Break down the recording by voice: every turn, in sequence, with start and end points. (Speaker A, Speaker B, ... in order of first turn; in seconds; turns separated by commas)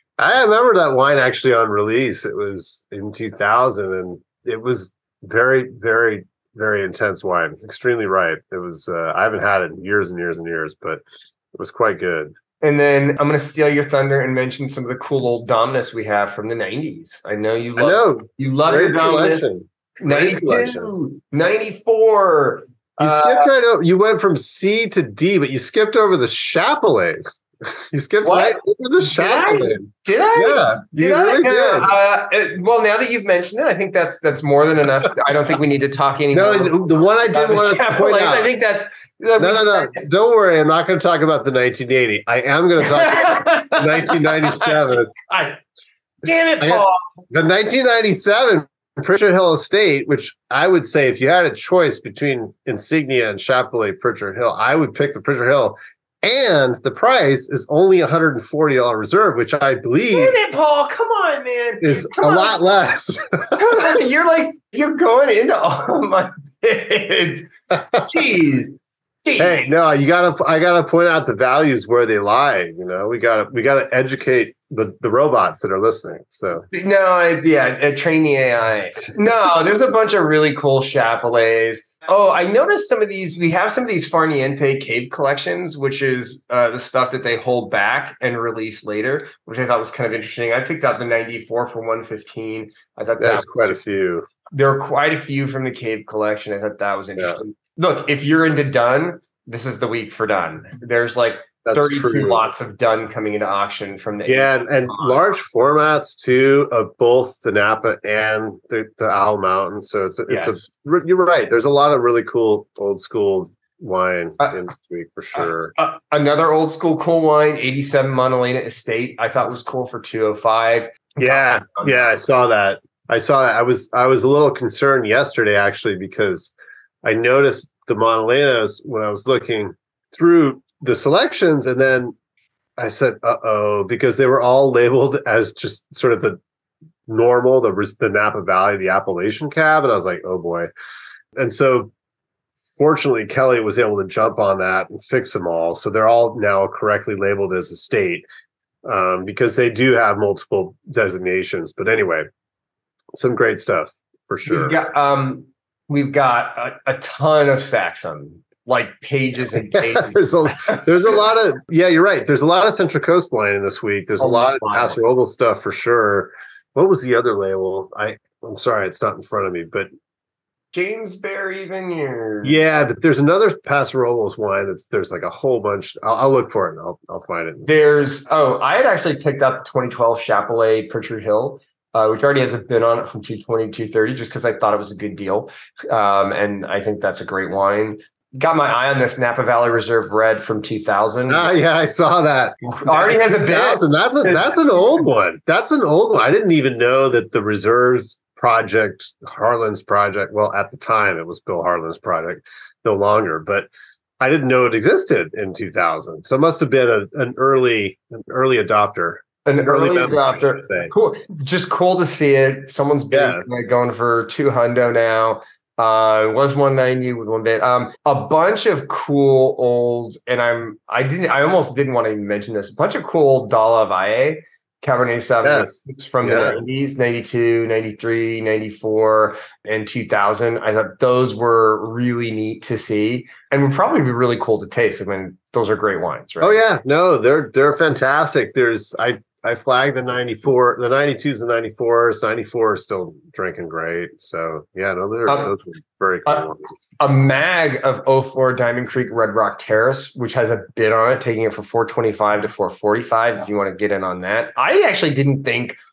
Speaker A: 0.2-11.0, Speaker A: 11.6-12.3, Speaker B: 12.6-19.5, Speaker A: 17.8-20.9, Speaker B: 20.0-23.5, Speaker A: 23.0-31.9, Speaker B: 28.2-40.0, Speaker A: 36.3-38.5, Speaker A: 39.4-45.1, Speaker B: 42.8-45.6, Speaker B: 46.2-47.0, Speaker A: 46.6-60.4, Speaker B: 60.1-62.6, Speaker A: 61.8-63.6, Speaker B: 63.6-69.7, Speaker A: 69.4-76.7, Speaker B: 76.5-93.8, Speaker A: 93.2-94.3, Speaker B: 94.5-105.2, Speaker A: 101.7-102.5, Speaker A: 104.3-115.7, Speaker B: 110.3-110.6, Speaker B: 115.3-122.1, Speaker A: 121.2-126.5, Speaker A: 127.0-132.2, Speaker A: 132.8-136.4, Speaker A: 137.1-140.7, Speaker A: 141.4-141.9, Speaker A: 142.7-148.3, Speaker A: 148.8-152.2, Speaker A: 153.2-154.8, Speaker B: 154.5-161.2, Speaker A: 159.6-169.9, Speaker B: 164.2-165.0, Speaker B: 170.7-172.6, Speaker A: 172.4-177.7, Speaker B: 177.7-191.5, Speaker A: 191.3-203.7, Speaker B: 192.7-195.0, Speaker A: 204.2-210.9, Speaker B: 209.4-236.6, Speaker A: 213.1-213.5, Speaker A: 225.4-226.6, Speaker A: 236.4-246.9, Speaker B: 245.3-245.5, Speaker B: 246.3-255.8